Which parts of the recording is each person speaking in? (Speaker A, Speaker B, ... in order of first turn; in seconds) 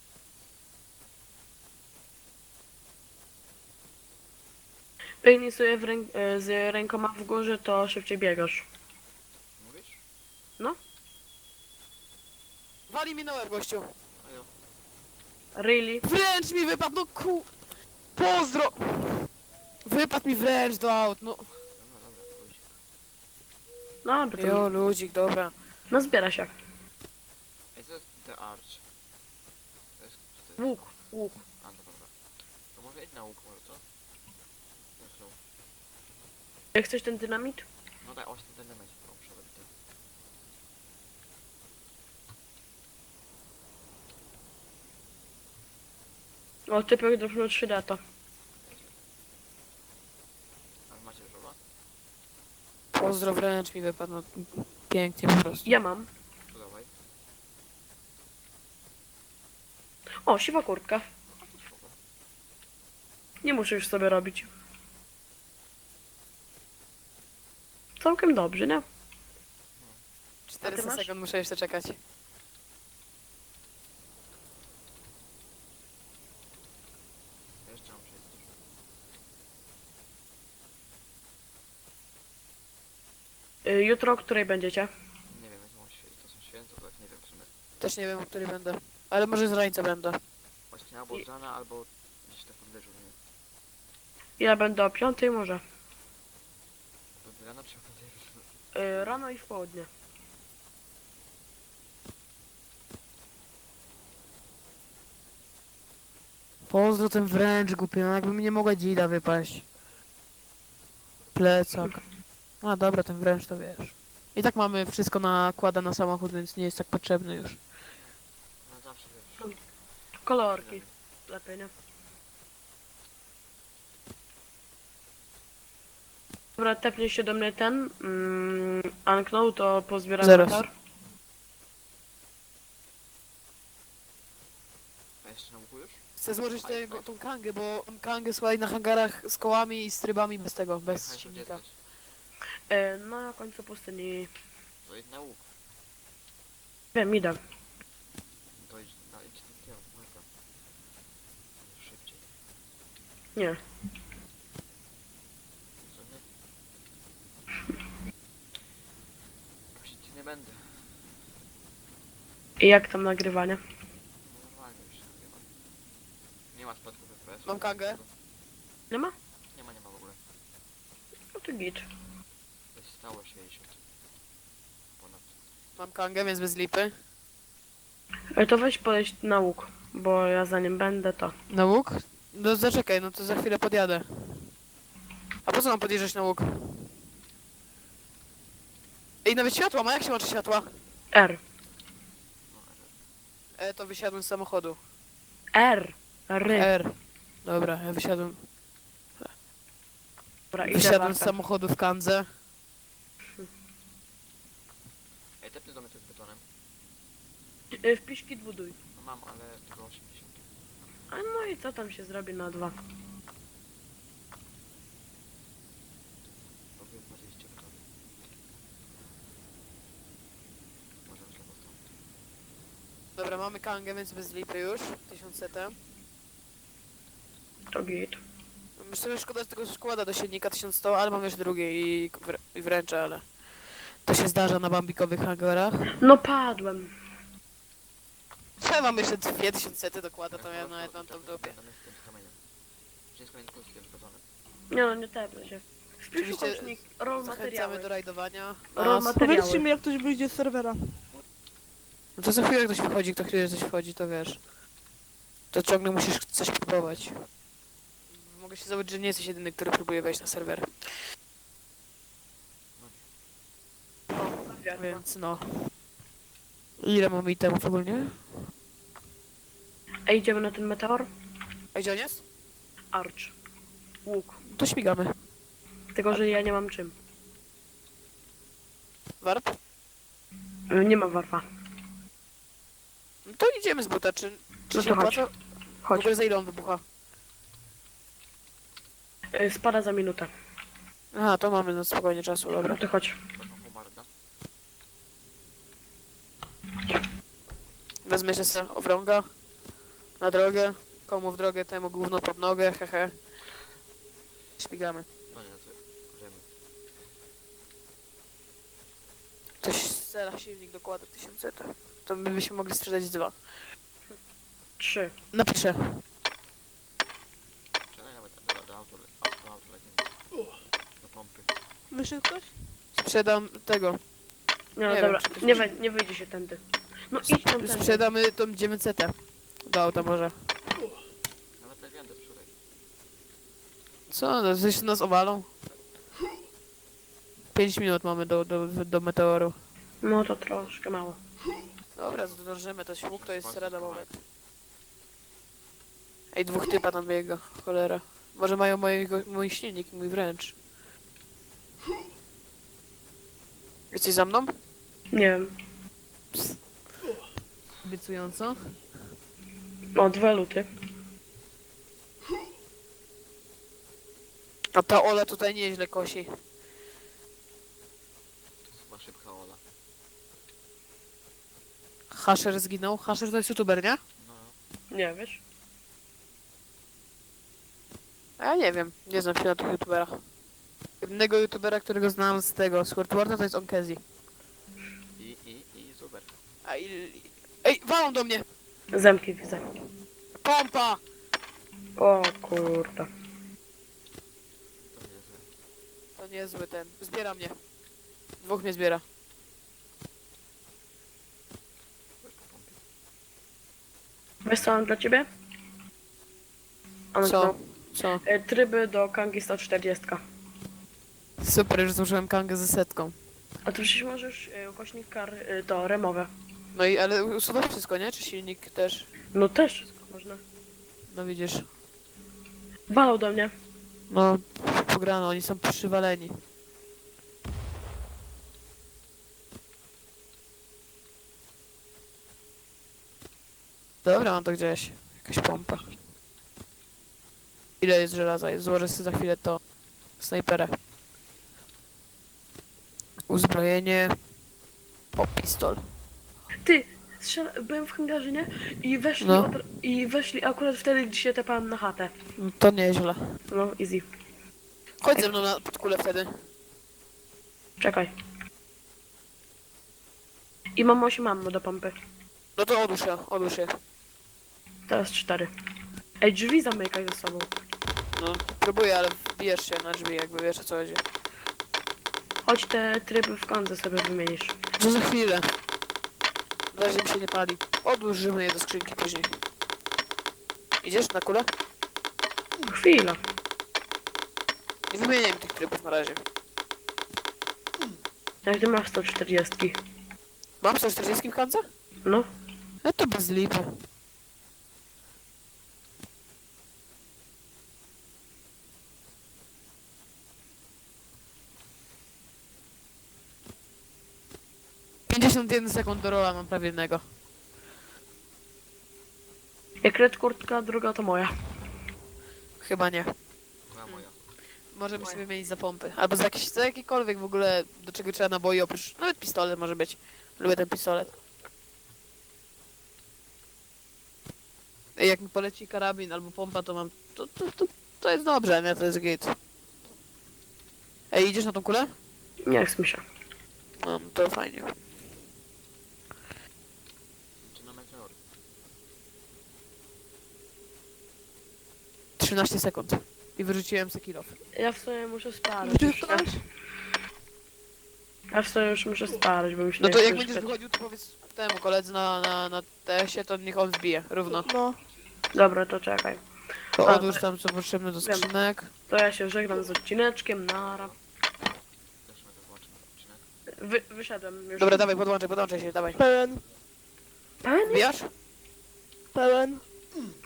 Speaker A: 5.2-8.7, 15.6-16.0, 24.0-24.7, 25.9-26.5, 30.6-31.4, 36.7-37.6, 46.7-48.0, 55.6-56.1, 60.2-61.1, 63.4-64.5, 68.0-68.9, 70.6-71.1, 83.7-84.9, 94.4-95.6, 98.7-99.9, 120.2-121.7, 126.6-130.7, 142.7-144.3, 146.9-147.4, 162.6-163.6, 171.3-171.8, 178.3-181.3, 191.1-191.4, 195.5-196.7, 200.5-201.4, 207.8-208.8, 211.1-212.8, 227.7-228.2, 236.0-236.9, 244.7-247.9, 248.8-249.7, 264.1-265.0, 270.1-271.1, 272.9-273.3, 274.1-274.4, 275.9-276.9, 280.7-281.4, 284.7-285.3, 285.8-286.1, 289.3-290.3, 292.6-293.2, 314.8-315.1, 324.8-328.1, 340.0-341.2, 355.1-355.5, 359.9-360.7, 374.9-375.4, 388.9-389.6, 392.0-393.1, 404.4-405.3, 407.1-407.6, 408.2-410.2, 413.6-416.3, 419.3-420.4, 422.9-423.5, 446.6-452.1, 453.5-454.1, 457.8-458.1, 460.8-462.0, 464.9-465.5, 466.2-467.5, 472.4-474.6, 482.7-483.2, 488.4-489.8, 509.8-511.3, 532.4-533.0, 544.5-546.3, 548.3-550.5, 555.3-556.2, 556.8-557.2, 558.0-558.3, 558.9-560.9, 563.6-564.9, 567.4-567.9
Speaker B: 9.6-10.0, 14.2-14.5, 21.8-22.8, 27.8-28.9, 30.0-30.9, 31.6-32.1, 32.7-33.8, 35.0-35.4, 38.0-39.7, 48.6-49.0, 50.9-51.6, 56.5-56.9, 61.4-62.0, 69.8-70.0, 77.7-78.5, 85.3-87.5, 90.7-93.2, 97.2-99.2, 118.0-119.6, 120.5-120.9, 135.2-136.0, 136.6-137.1, 140.8-141.8, 144.8-145.5, 148.6-150.3, 151.6-152.3, 155.8-156.3, 159.7-161.0, 164.2-165.5, 166.5-168.1, 169.5-170.2, 172.7-173.8, 175.0-175.3, 192.5-192.9, 205.4-206.4, 209.0-210.5, 216.8-217.8, 221.1-221.8, 240.3-242.4, 243.1-244.3, 256.8-257.1, 262.8-263.1, 293.3-294.1, 305.3-306.5, 317.9-320.1, 321.0-321.5, 331.6-332.5, 342.1-342.4, 343.1-344.1, 368.7-369.6, 374.2-374.6, 385.2-386.4, 394.8-395.5, 402.2-402.8, 513.7-514.3, 537.4-538.2, 560.5-561.0, 562.0-563.3
Speaker C: 12.9-13.9, 16.0-17.5, 18.2-19.3, 19.9-21.5, 24.4-25.5, 52.9-55.7, 70.5-72.0, 87.8-90.2, 106.7-109.7, 111.3-112.0, 112.6-117.6, 130.2-130.6, 136.2-141.6, 167.4-168.0, 175.8-176.9, 181.5-184.5, 185.5-186.9, 189.2-190.7, 193.6-194.8, 196.5-198.4, 200.6-202.3, 223.2-225.8, 228.8-233.3, 234.0-236.0, 238.6-241.5, 246.2-249.2, 252.2-254.4, 255.5-257.2, 258.1-260.7, 264.7-265.5, 266.8-268.2, 271.7-272.2, 274.4-275.1, 279.2-279.6, 283.2-285.3, 285.9-286.8, 291.1-292.8, 298.1-299.3, 300.2-303.2, 304.6-305.1, 309.6-313.4, 315.3-316.0, 322.9-324.0, 324.9-325.7, 327.2-330.5, 334.1-335.5, 337.5-339.6, 342.0-344.1, 346.3-350.6, 353.9-354.6, 357.8-358.8, 364.8-366.3, 372.1-374.0, 378.4-380.2, 381.0-384.0, 386.6-388.5, 390.4-391.0, 396.2-397.6, 398.4-399.0, 407.2-408.2, 411.4-413.1, 416.8-419.1, 421.1-421.7, 424.1-426.4, 434.1-435.8, 437.8-439.6, 440.2-440.7, 443.3-444.2, 445.2-445.8, 449.2-449.5, 452.4-453.3, 455.0-456.4, 462.6-463.7, 468.1-471.0, 474.8-475.5, 476.7-479.4, 480.8-481.5, 484.9-486.2, 490.6-491.6, 492.8-493.7, 505.1-507.0, 512.6-513.1, 514.7-521.1, 525.0-529.4, 531.1-531.9, 533.8-534.8, 542.2-544.4, 549.8-554.5, 556.8-558.7, 564.6-566.0, 567.7-568.1
Speaker D: 249.2-251.0, 321.9-322.6, 545.6-546.5, 554.3-554.8, 565.9-566.4, 569.1-569.6